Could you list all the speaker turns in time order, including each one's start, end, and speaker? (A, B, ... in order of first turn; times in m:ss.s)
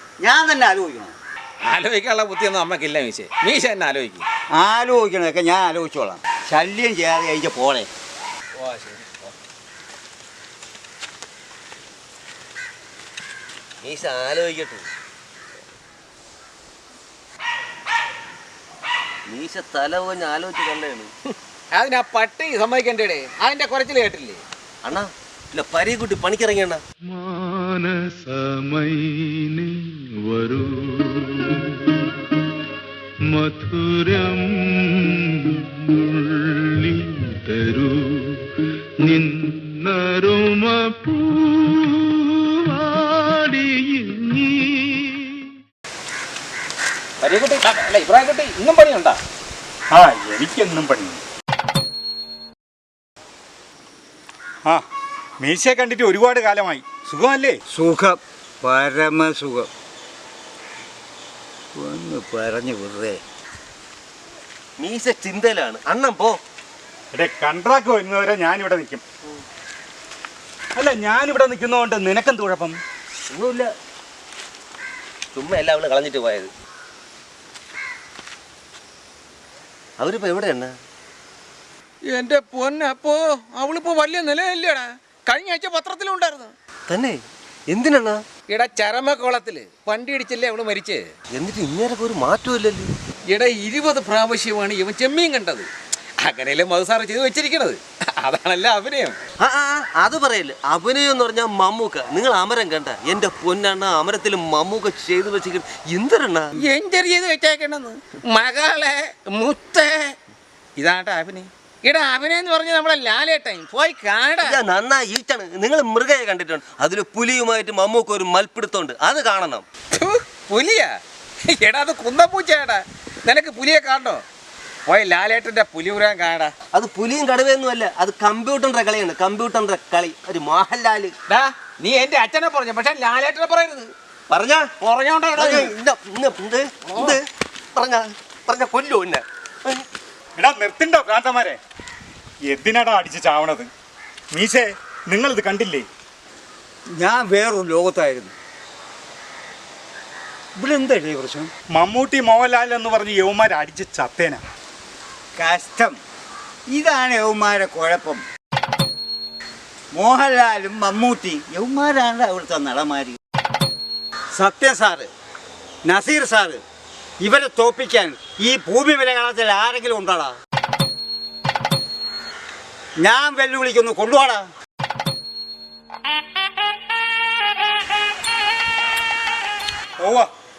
0:00.2-0:01.2 A
0:01.6-0:04.2 B
0:04.5-0:07.9 A
0:08.6-0:09.2 B
0:13.8-0:14.8 C
0:19.3-0:21.1 C
0:21.7-0:24.4 B
0:24.8-0:26.8 C
0:27.1-0:32.0 D
0:33.3-0:38.5 D
0:39.0-0:45.4 D
0:47.2-0:49.2 B
0:49.9-0:51.2 E
0:55.4-0:57.6 E
0:57.7-0:59.7 A
1:01.8-1:03.2 A
1:04.8-1:06.3 C
1:07.2-1:09.0 E
1:10.8-1:12.8 E
1:13.3-1:13.7 C
1:15.3-1:16.5 C
1:20.0-1:20.7 C
1:22.1-1:26.5 B
1:26.9-1:27.2 C
1:27.7-1:28.2 C
1:28.5-1:31.1 B
1:31.3-1:32.9 C
1:33.3-1:35.7 B
1:36.2-1:39.2 B
1:39.4-1:46.5 C
1:46.6-1:50.1 B
1:50.8-1:54.6 B
1:54.4-1:59.6 C
1:59.9-2:01.0 B
2:01.5-2:04.2 B
2:04.9-2:06.5 B
2:06.7-2:11.1 C
2:11.3-2:13.9 B
2:14.3-2:14.7 C
2:14.8-2:15.7 B
2:15.3-2:17.2 C
2:16.9-2:17.2 B
2:17.8-2:19.8 C
2:20.4-2:21.6 E
2:22.5-2:23.7 E
2:24.4-2:25.8 E
2:27.0-2:28.3 A
2:30.6-2:31.5 A
2:31.7-2:34.4 E
2:35.4-2:36.0 A
2:36.7-2:38.2 A
2:39.9-2:43.2 A
2:44.4-2:45.1 A
2:45.8-2:46.6 A
2:47.2-2:50.4 A
2:53.0-2:54.5 A
3:00.0-3:00.3 E